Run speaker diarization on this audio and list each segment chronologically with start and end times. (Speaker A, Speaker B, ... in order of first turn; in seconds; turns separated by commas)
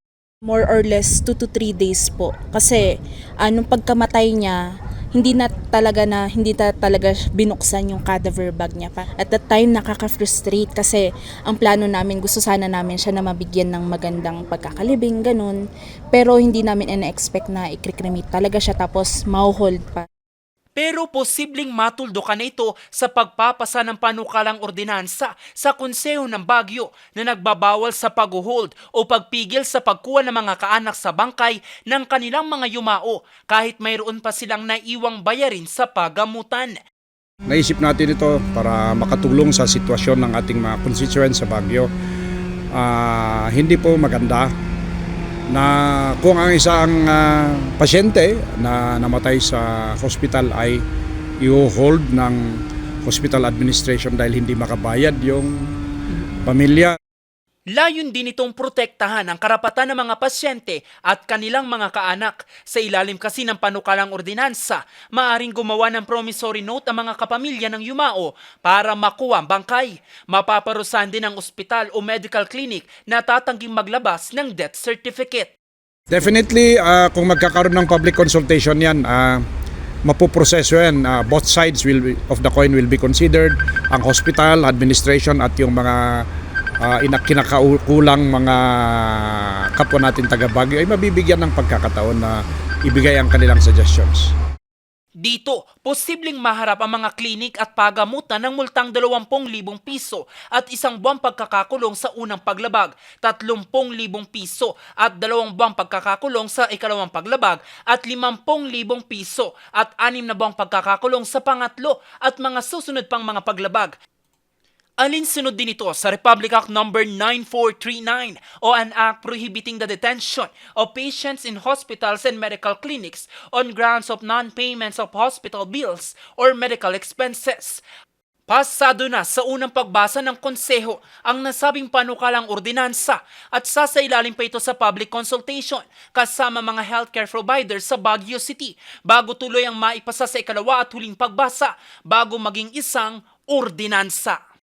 Speaker A: 0.5-2.8, Speaker A: 3.4-4.6, Speaker A: 5.2-15.6, Speaker A: 16.1-20.0, Speaker B: 20.8-36.8, Speaker C: 37.5-41.9, Speaker C: 42.7-44.5, Speaker C: 45.5-50.8, Speaker C: 51.4-52.4, Speaker C: 53.0-55.5, Speaker C: 56.4-56.9, Speaker B: 57.7-75.5, Speaker C: 76.1-79.4, Speaker C: 80.0-86.0, Speaker C: 86.8-94.3, Speaker B: 95.2-114.0, Speaker B: 115.0-127.8, Speaker B: 128.5-144.4